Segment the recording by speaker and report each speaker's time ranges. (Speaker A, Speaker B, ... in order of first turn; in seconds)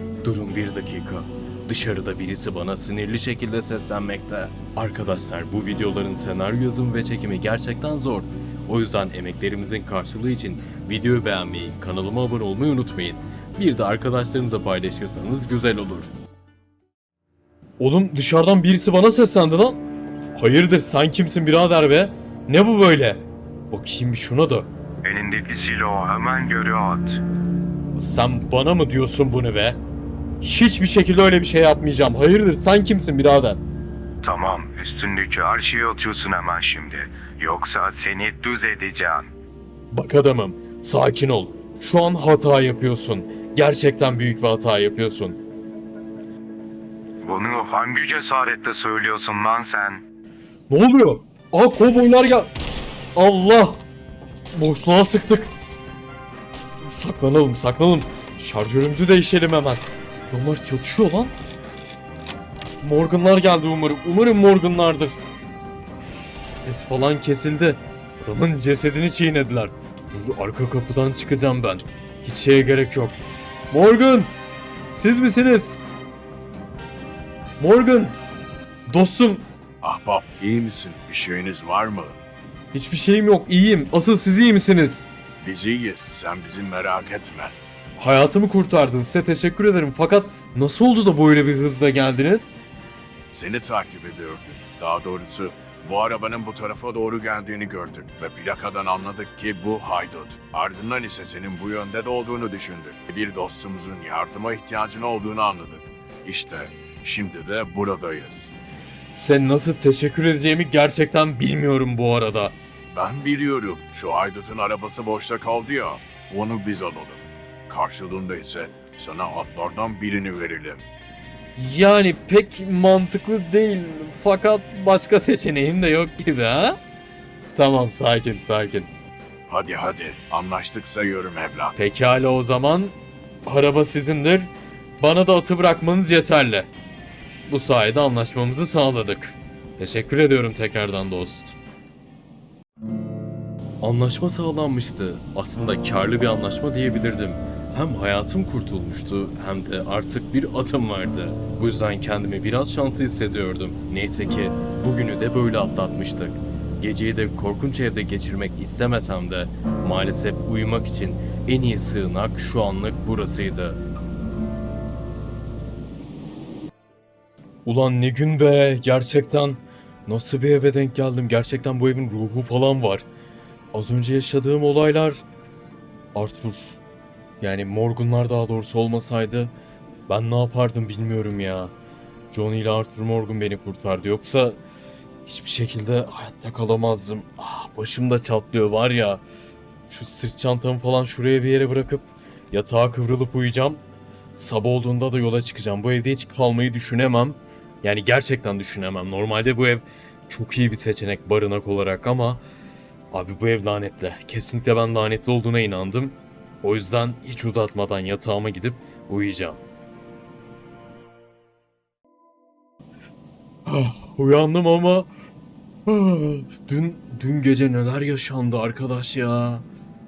Speaker A: 0.2-16.1, 17.8-19.8, 20.3-24.7, 27.9-29.8, 30.4-33.6, 39.9-45.4, 50.7-52.5, 53.1-53.8, 54.5-55.5, 56.8-61.3, 62.8-65.2, 66.6-73.2, 73.7-74.3, 74.9-75.8, 77.6-78.2, 78.9-79.5, 82.7-85.1, 88.0-92.5, 109.1-112.5, 121.5-126.8, 127.5-128.9, 131.8-136.7, 137.5-141.6, 143.8-163.8, 167.7-173.1, 173.7-175.2, 176.1-176.8, 177.4-179.5, 180.1-181.7, 182.3-184.6, 185.2-189.2, 189.9-193.8, 194.4-202.4, 203.1-209.6, 213.7-215.1, 215.8-219.7
Speaker B: 25.0-27.2, 34.2-39.3, 47.2-50.0
Speaker C: 79.8-82.2, 85.4-87.6, 93.3-108.5, 112.9-120.8, 129.5-131.8